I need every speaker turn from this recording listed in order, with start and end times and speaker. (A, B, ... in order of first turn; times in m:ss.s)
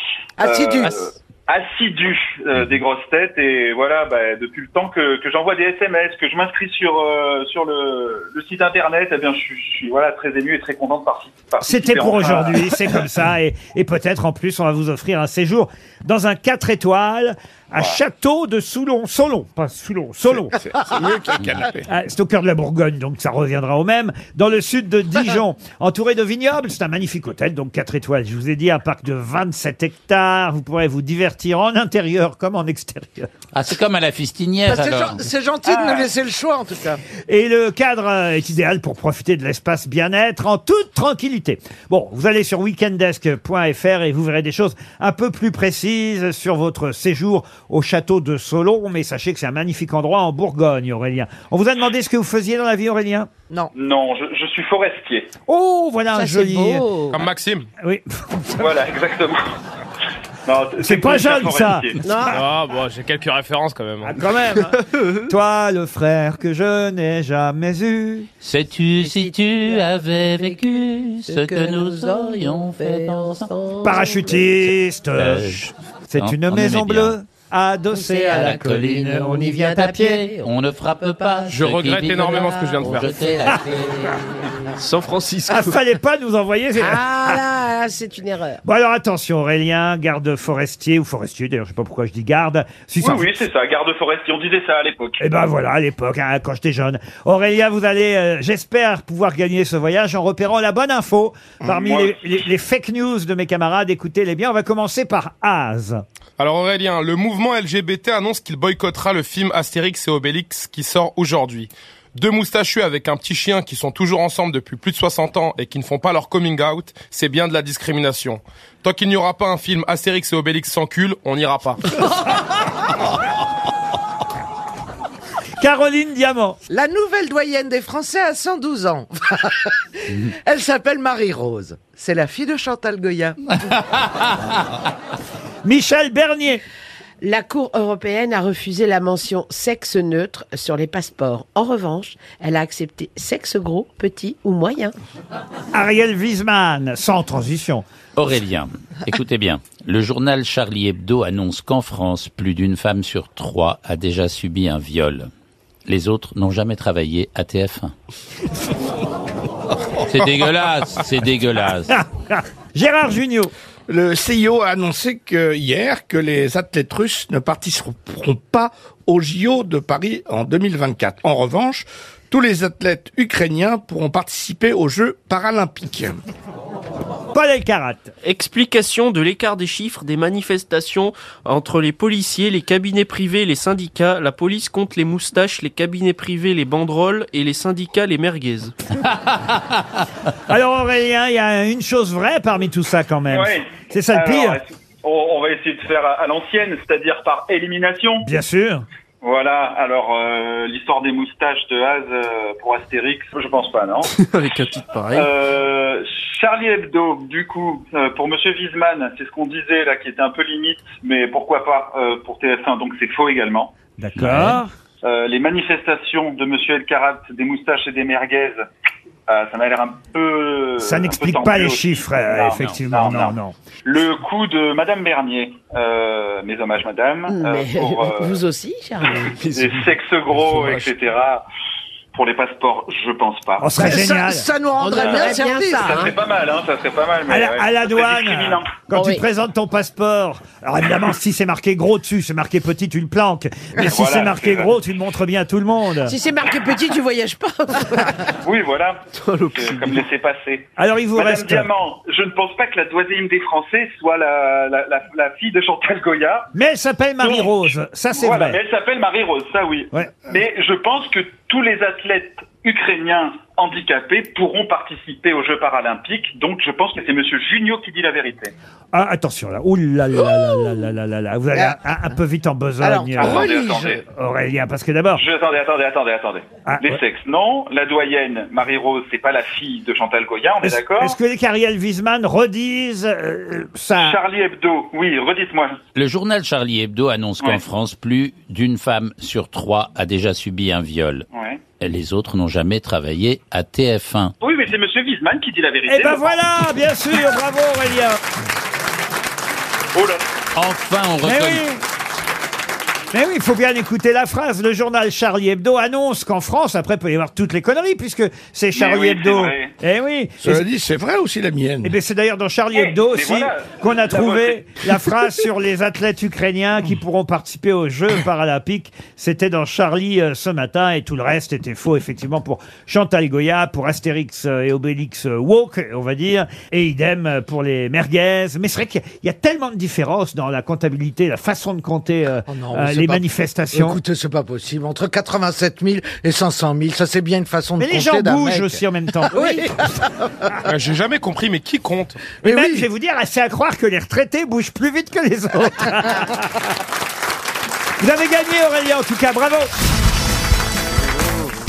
0:00.4-0:00.9 A
0:00.4-0:12.6 B
0:11.6-0:20.5 C
0:20.2-0:21.9 D
0:21.9-0:33.3 C
0:33.5-0:35.2 E
0:34.6-0:37.0 A
0:35.7-0:36.0 B
0:37.3-0:53.3 C
0:53.7-0:55.3 B
0:55.5-0:56.9 C
0:56.1-0:57.2 F
0:57.1-0:57.7 G
0:57.8-0:58.7 C
0:58.6-0:59.5 B
1:00.4-1:02.0 B
1:00.8-1:02.4 C
1:02.0-1:02.4 F
1:02.3-1:04.2 G
1:04.0-1:08.3 C
1:04.7-1:05.3 H
1:08.4-1:13.5 E
1:09.0-1:10.6 F
1:11.2-1:14.5 F
1:13.8-1:20.2 C
1:15.2-1:17.2 E
1:17.9-1:18.6 F
1:18.2-1:24.1 E
1:19.2-1:20.5 F
1:21.2-1:21.5 F
1:21.5-1:23.1 G
1:22.4-1:24.6 F
1:24.8-1:25.8 H
1:25.5-1:27.4 C
1:26.8-1:28.6 F
1:28.6-1:33.4 C
1:33.0-1:35.2 B
1:35.2-1:46.0 C
1:41.7-1:42.2 B
1:46.4-2:01.8 G
2:05.6-2:06.6 C
2:06.7-2:13.6 A
2:15.6-2:16.6 C
2:17.2-2:24.9 F
2:25.7-2:27.8 C
2:28.2-2:35.3 E
2:35.8-2:37.9 E
2:40.1-2:42.0 E
2:41.9-2:43.5 C
2:43.9-2:56.2 D
2:57.3-2:58.1 C
2:58.2-3:08.7 H
3:10.5-3:14.6 C
3:13.3-3:18.2 B
3:18.2-3:18.8 C
3:19.2-3:24.1 B
3:24.1-3:25.3 H
3:25.1-3:33.7 B
3:34.0-3:34.7 C
3:34.2-3:34.6 E
3:35.0-3:38.6 B
3:39.3-3:48.4 B
3:40.8-3:43.5 C
3:47.3-3:49.3 F
3:49.4-3:49.9 H
3:49.5-3:51.4 B
3:52.1-3:53.7 B
3:53.6-3:54.5 C
3:53.8-3:56.1 A
3:54.8-3:56.1 F
3:55.0-3:55.3 B
3:55.9-3:58.8 B
3:57.3-4:06.1 C
3:58.9-3:59.2 F
4:03.9-4:04.7 B
4:06.0-4:08.3 F
4:08.4-4:09.0 B
4:09.1-4:10.0 H
4:09.5-4:16.5 B
4:10.8-4:11.7 C
4:16.5-4:18.6 C
4:17.2-4:28.5 B
4:28.9-4:33.5 C
4:31.5-4:32.0 A
4:32.8-4:34.0 A
4:33.2-4:34.0 B
4:34.0-4:35.2 C
4:35.1-4:41.2 B
4:36.7-4:37.0 C
4:40.6-4:44.2 C
4:44.0-4:45.8 B
4:45.9-4:51.2 E
4:51.3-4:51.6 B
4:51.8-4:54.3 E
4:54.4-4:56.4 B
4:55.9-4:58.2 C
4:59.9-5:00.2 B
5:00.6-5:01.6 E
5:01.2-5:01.8 C
5:03.1-5:10.6 C
5:08.7-5:09.7 B
5:10.4-5:12.0 D
5:11.8-5:34.0 C
5:12.7-5:14.6 B
5:32.5-5:40.3 A
5:37.8-5:39.7 C
5:40.6-5:42.2 G
5:42.4-5:42.8 A
5:42.4-5:46.6 C
5:48.0-5:49.7 C